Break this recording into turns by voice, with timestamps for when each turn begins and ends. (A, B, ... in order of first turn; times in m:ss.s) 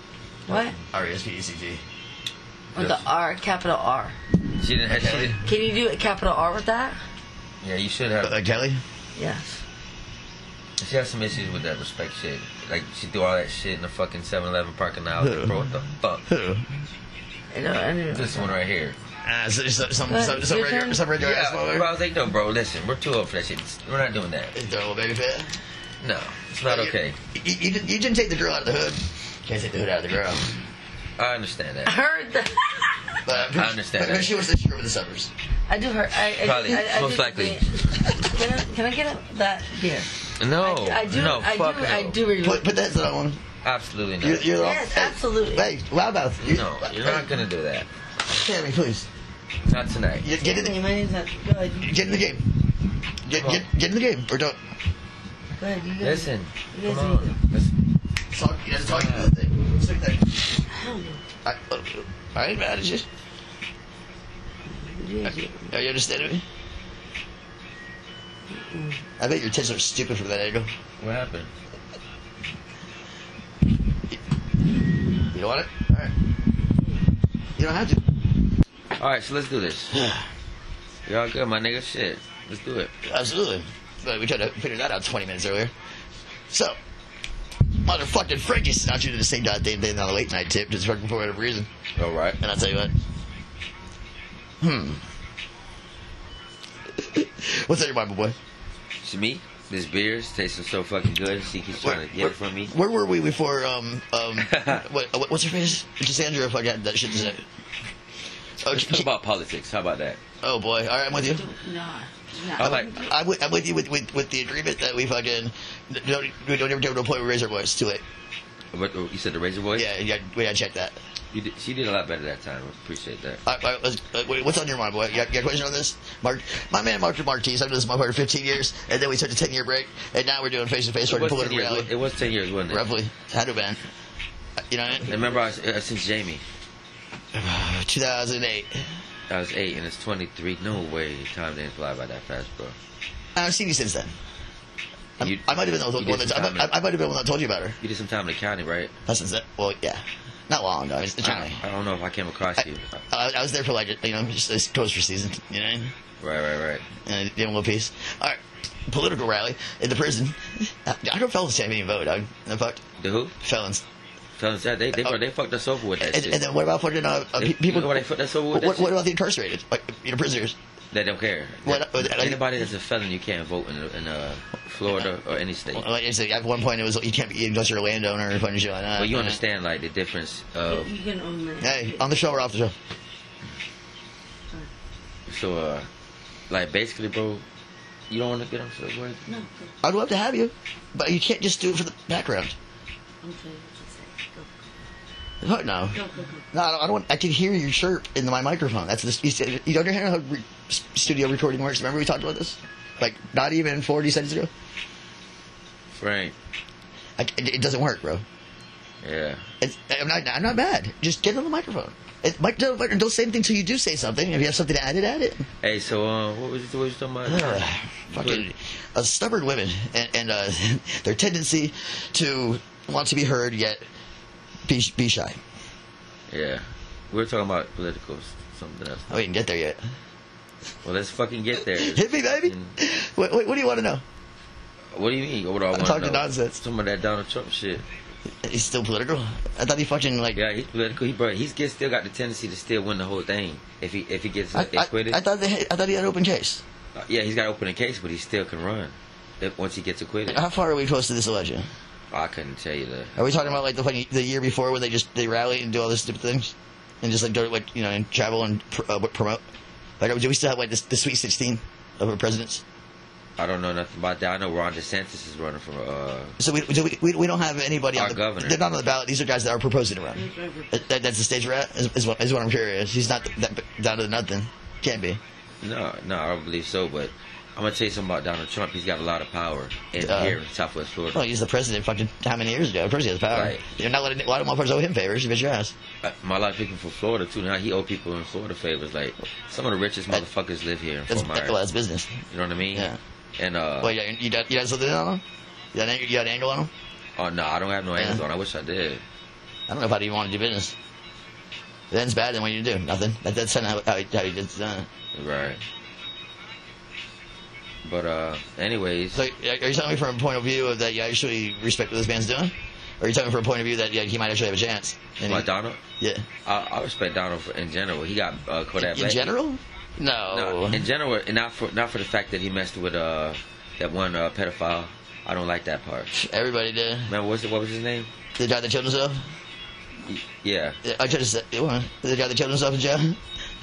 0:00.5-0:00.8 A
0:00.9-0:01.8 B
0:02.7-0:04.2 A
0:02.8-0:03.0 C
0:04.6-0:05.4 C
0:04.9-0:05.4 B
0:05.4-0:07.0 A
0:07.6-0:08.4 C
0:08.2-0:08.8 B
0:09.2-0:09.6 A
0:10.8-0:16.2 C
0:15.2-0:15.6 B
0:16.3-0:16.7 B
0:17.5-0:18.6 A
0:18.1-0:19.0 C
0:19.2-0:21.9 B
0:20.1-0:21.0 A
0:21.2-0:24.6 C
0:24.6-0:25.5 B
0:26.0-0:27.2 C
0:26.6-0:30.6 B
0:31.2-0:32.0 C
0:31.9-0:33.2 A
0:33.3-0:35.3 B
0:33.3-0:34.5 C
0:35.7-0:42.8 A
0:36.3-0:37.7 C
0:40.4-0:42.2 C
0:42.4-0:43.4 B
0:43.6-0:44.8 C
0:44.2-0:47.3 B
0:44.5-0:45.7 A
0:46.4-0:47.9 C
0:48.3-0:49.1 B
0:49.7-0:50.3 C
0:50.2-0:50.8 B
0:50.4-0:52.1 A
0:51.8-0:52.5 B
0:53.2-0:54.6 B
0:53.3-0:53.7 C
0:55.6-0:57.4 A
0:56.0-0:57.7 C
0:58.3-1:00.4 B
0:58.9-0:59.3 C
1:00.7-1:01.2 A
1:01.4-1:03.1 B
1:04.8-1:05.7 A
1:05.7-1:06.4 B
1:08.5-1:09.0 A
1:09.2-1:10.7 B
1:11.0-1:11.5 C
1:15.3-1:16.1 B
1:17.6-1:18.1 B
1:19.0-1:20.0 C
1:19.9-1:20.2 B
1:21.1-1:22.9 C
1:23.0-1:25.7 B
1:26.5-1:26.8 B
1:27.8-1:31.7 B
1:32.0-1:32.4 C
1:32.4-1:32.9 B
1:34.6-1:35.0 B
1:37.0-1:38.4 B
1:39.0-1:42.8 C
1:41.8-1:47.4 B
1:44.4-1:44.8 C
1:48.6-1:49.1 B
1:48.7-1:50.2 C
1:50.4-1:51.5 B
1:51.2-1:53.1 A
1:52.6-1:53.0 C
1:52.6-1:58.0 B
1:58.7-1:59.9 C
1:59.8-2:01.0 B
2:01.3-2:03.4 C
2:03.5-2:11.9 B
2:11.1-2:12.9 C
2:12.7-2:13.8 B
2:14.7-2:15.3 B
2:14.9-2:16.4 C
2:17.3-2:18.8 B
2:19.3-2:22.8 C
2:23.4-2:24.1 B
2:25.2-2:26.8 C
2:25.2-2:27.8 B
2:27.8-2:29.0 C
2:29.1-2:31.6 B
2:31.2-2:33.0 C
2:33.1-2:35.9 B
2:36.2-2:36.9 C
2:37.0-2:42.8 B
2:43.0-2:43.4 C
2:43.4-2:43.8 B
2:44.4-2:46.4 C
2:46.0-2:50.6 B
2:47.4-2:49.0 C
2:50.9-2:55.8 C
2:51.6-2:52.4 B
2:55.7-2:59.4 B
2:59.0-3:00.9 C
3:00.7-3:02.1 A
3:01.6-3:02.7 B
3:05.3-3:05.9 C
3:06.5-3:07.4 C
3:08.1-3:09.3 C
3:09.3-3:09.7 A
3:09.8-3:12.6 B
3:13.2-3:14.7 A
3:15.4-3:16.0 B
3:15.9-3:16.4 A
3:16.5-3:24.5 B
3:25.9-3:26.4 C
3:27.2-3:28.2 B
3:29.0-3:29.4 C
3:29.6-3:35.5 B
3:35.6-3:37.7 C
3:37.2-3:43.8 B
3:38.2-3:38.5 C
3:44.7-3:45.4 B
3:46.3-3:49.1 C
3:49.1-3:49.8 B
3:50.8-3:52.7 C
3:51.8-3:54.0 B
3:54.9-3:57.8 C
3:55.7-3:56.6 B
3:58.4-4:00.4 B
4:00.4-4:05.2 C
4:04.5-4:06.6 B
4:07.0-4:10.4 C
4:10.3-4:11.7 B
4:12.1-4:13.6 C
4:13.2-4:19.4 B
4:20.0-4:22.6 B
4:23.4-4:26.4 C
4:26.4-4:35.2 B
4:27.9-4:28.6 C
4:30.2-4:30.9 A
4:35.6-4:41.2 C
4:40.0-4:40.4 B
4:41.1-4:45.7 B
4:43.3-4:43.6 C
4:46.0-4:51.6 C
4:51.1-4:52.2 B
4:52.3-4:53.9 C
4:53.8-4:55.2 B
4:55.7-4:56.7 B
4:57.2-4:59.0 C
4:58.0-4:58.2 B
4:59.7-5:00.7 B
5:01.9-5:04.9 B
5:05.1-5:05.6 C
5:07.8-5:09.2 C
5:09.1-5:15.5 B
5:15.3-5:15.8 C
5:16.0-5:16.2 B
5:16.4-5:19.3 C
5:18.8-5:20.9 B
5:20.3-5:26.1 C
5:26.1-5:27.1 B
5:27.1-5:28.1 C
5:28.4-5:29.2 B
5:30.1-5:30.8 C
5:30.8-5:33.2 B